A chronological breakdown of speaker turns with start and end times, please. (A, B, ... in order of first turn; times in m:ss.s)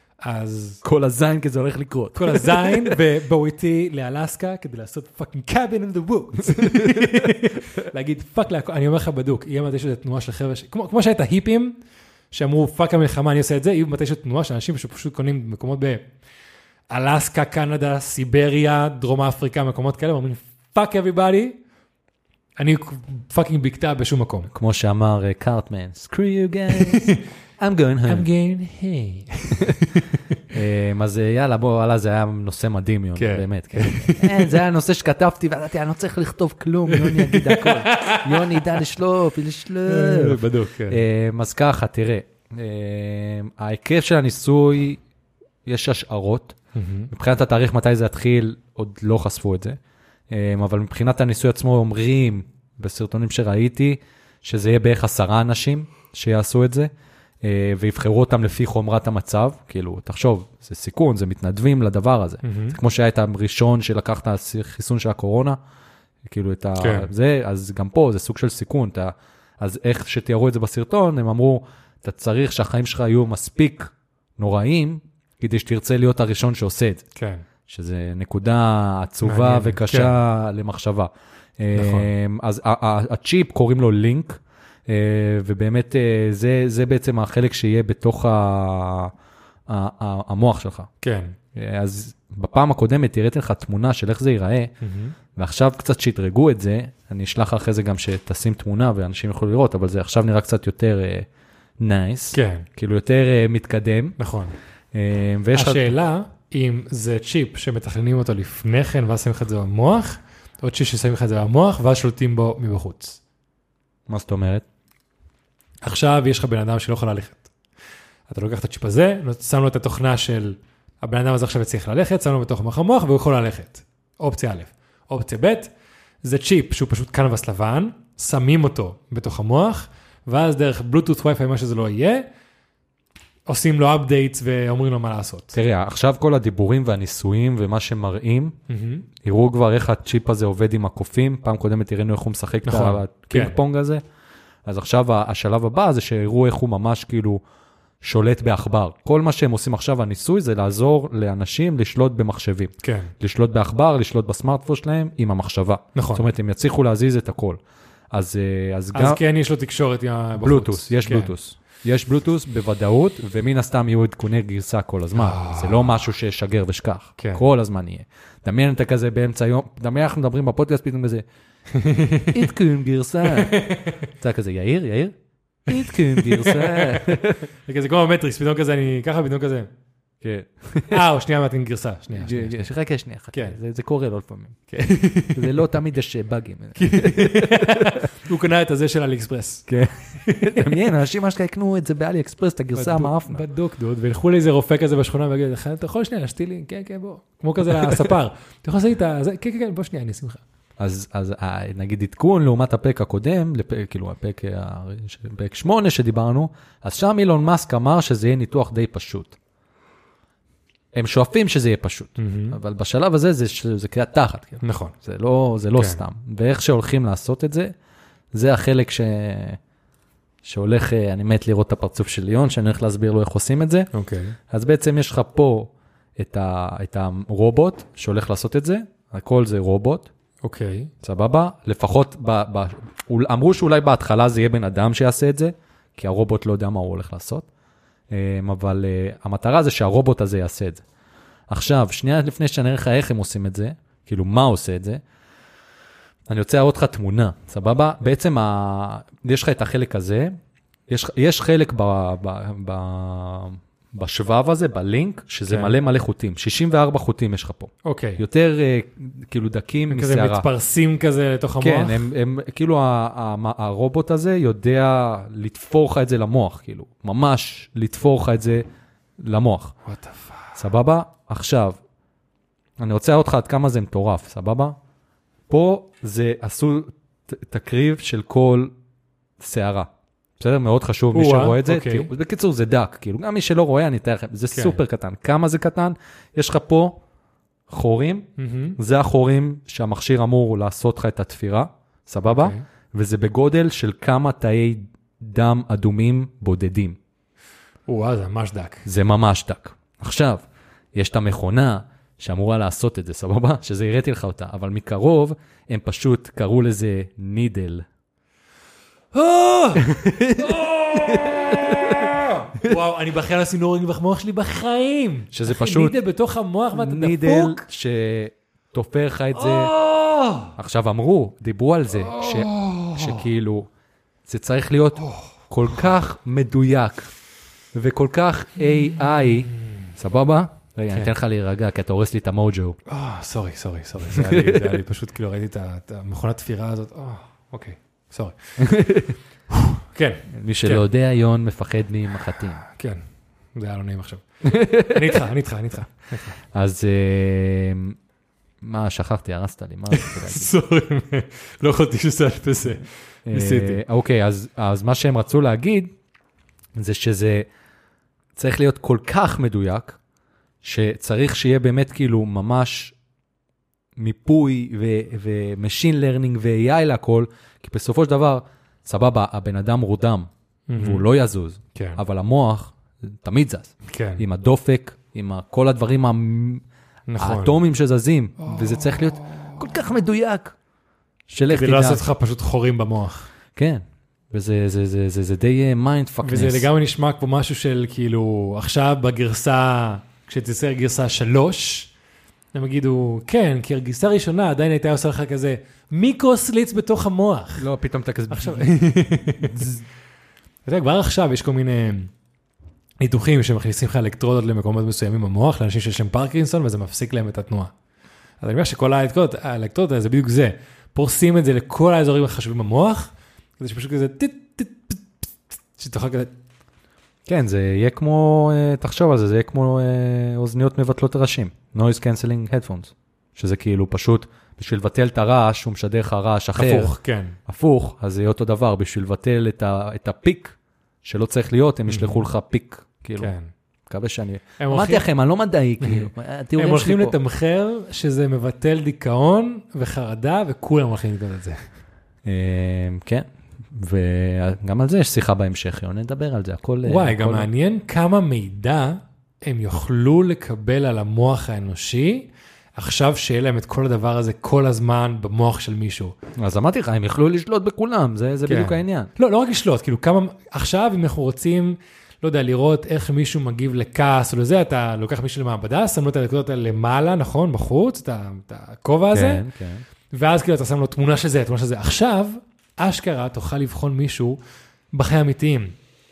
0:00.2-0:00.8 A
0:00.8-0:03.0 B
0:02.1-0:11.8 A
0:06.4-0:07.6 B
0:12.3-0:16.0 A
0:16.9-0:21.6 A
0:22.6-0:24.5 A
0:24.5-0:28.3 B
0:26.7-0:27.2 A
0:28.0-0:30.4 A
0:30.5-0:45.0 B
0:33.2-0:34.6 A
0:36.9-0:38.8 A
0:39.8-0:41.0 A
0:45.6-0:46.6 B
0:46.7-0:47.1 A
0:47.1-0:49.8 B
0:50.3-0:56.9 B
0:57.4-1:05.6 B
1:02.4-1:02.8 A
1:06.3-1:17.0 B
1:06.8-1:07.1 A
1:17.2-1:17.4 A
1:17.7-1:29.1 B
1:19.2-1:20.2 A
1:21.7-1:22.1 A
1:29.7-1:30.9 B
1:31.0-1:31.3 A
1:31.5-1:34.7 B
1:34.8-1:35.1 A
1:35.4-1:41.3 B
1:41.8-1:44.2 B
1:42.3-1:42.7 A
1:44.2-1:44.6 A
1:44.9-1:45.9 B
1:45.5-1:53.2 A
1:54.1-1:54.6 B
1:55.8-1:57.5 A
1:58.3-2:05.7 A
2:06.2-2:12.2 A
2:13.5-2:15.6 A
2:15.5-2:18.5 B
2:18.7-2:19.0 A
2:19.2-2:24.0 B
2:22.6-2:23.6 A
2:24.6-2:27.4 B
2:28.0-2:37.6 B
2:32.8-2:33.1 A
2:35.9-2:36.3 A
2:38.1-2:39.2 B
2:38.9-2:41.3 A
2:40.4-2:51.2 B
2:45.2-2:46.0 A
2:47.2-2:47.4 A
2:51.7-2:52.5 A
2:52.3-2:55.1 B
2:53.2-2:54.1 A
2:55.7-2:57.5 B
2:55.7-2:59.7 A
3:00.2-3:01.0 B
3:00.9-3:02.6 A
3:02.1-3:04.6 B
3:04.7-3:05.6 A
3:05.3-3:08.1 B
3:06.8-3:10.8 A
3:09.7-3:13.4 B
3:12.8-3:20.4 A
3:17.6-3:18.1 B
3:20.8-3:29.4 B
3:30.9-3:37.7 B
3:32.2-3:32.6 A
3:34.6-3:34.9 A
3:35.8-3:36.0 A
3:38.3-3:39.6 B
3:40.4-3:43.9 B
3:43.9-3:44.4 A
3:44.5-3:50.1 B
3:50.4-3:50.9 A
3:51.0-3:57.4 B
3:58.1-4:00.8 B
4:01.5-4:05.0 B
4:06.3-4:10.3 B
4:10.9-4:20.4 B
4:15.5-4:15.7 A
4:17.8-4:18.2 A
4:19.9-4:22.1 A
4:21.6-4:28.6 B
4:29.2-4:29.7 B
4:29.8-4:30.6 A
4:30.5-4:31.8 B
4:32.8-4:34.8 B
4:35.5-4:38.7 B
4:39.4-4:47.0 B
4:41.1-4:42.1 A
4:44.5-4:44.8 A
4:47.7-4:57.0 B
4:48.4-4:48.8 A
4:52.2-4:52.6 A
4:57.9-4:58.8 A
4:58.8-5:07.8 B
5:09.1-5:17.6 A
5:09.8-5:12.1 B
5:15.3-5:16.0 B
5:16.7-5:19.7 B
5:19.4-5:20.5 A
5:20.6-5:23.7 B
5:21.9-5:23.2 A
5:24.2-5:27.1 B
5:25.0-5:25.3 A
5:27.7-5:32.8 B
5:29.5-5:29.8 A
5:32.9-5:38.6 A
5:34.0-5:34.8 B
5:38.6-5:39.2 B
5:39.5-5:40.8 A
5:40.3-5:42.6 B
5:42.6-5:43.0 A
5:43.5-5:46.4 A
5:44.4-5:45.2 B
5:46.5-5:48.0 B
5:48.6-5:50.5 B
5:49.9-5:53.8 A
5:53.2-5:55.9 B
5:56.8-5:57.4 B
5:58.4-6:00.0 B
6:00.6-6:02.9 B
6:04.0-6:16.6 B
6:10.7-6:11.0 A
6:11.7-6:12.0 A
6:13.9-6:14.2 A
6:17.1-6:17.6 A
6:17.2-6:20.5 B
6:18.4-6:19.6 A
6:21.3-6:22.0 B
6:21.5-6:23.3 A
6:23.5-6:26.7 B
6:26.2-6:31.9 A
6:32.5-6:37.7 A
6:37.6-6:38.7 B
6:38.3-6:39.7 A
6:39.4-6:39.8 B
6:40.6-6:42.1 A
6:43.0-6:47.7 A
6:48.4-6:56.3 A
6:57.2-7:06.9 B
7:06.6-7:07.4 A
7:07.4-7:13.3 B
7:11.9-7:12.2 A
7:13.2-7:13.5 A
7:13.9-7:17.1 B
7:14.6-7:15.1 A
7:15.8-7:21.6 A
7:22.2-7:27.5 B
7:26.8-7:36.1 A
7:36.4-7:39.1 B
7:38.4-7:49.4 A
7:49.1-7:49.8 B
7:50.1-7:54.4 A
7:54.9-7:55.7 A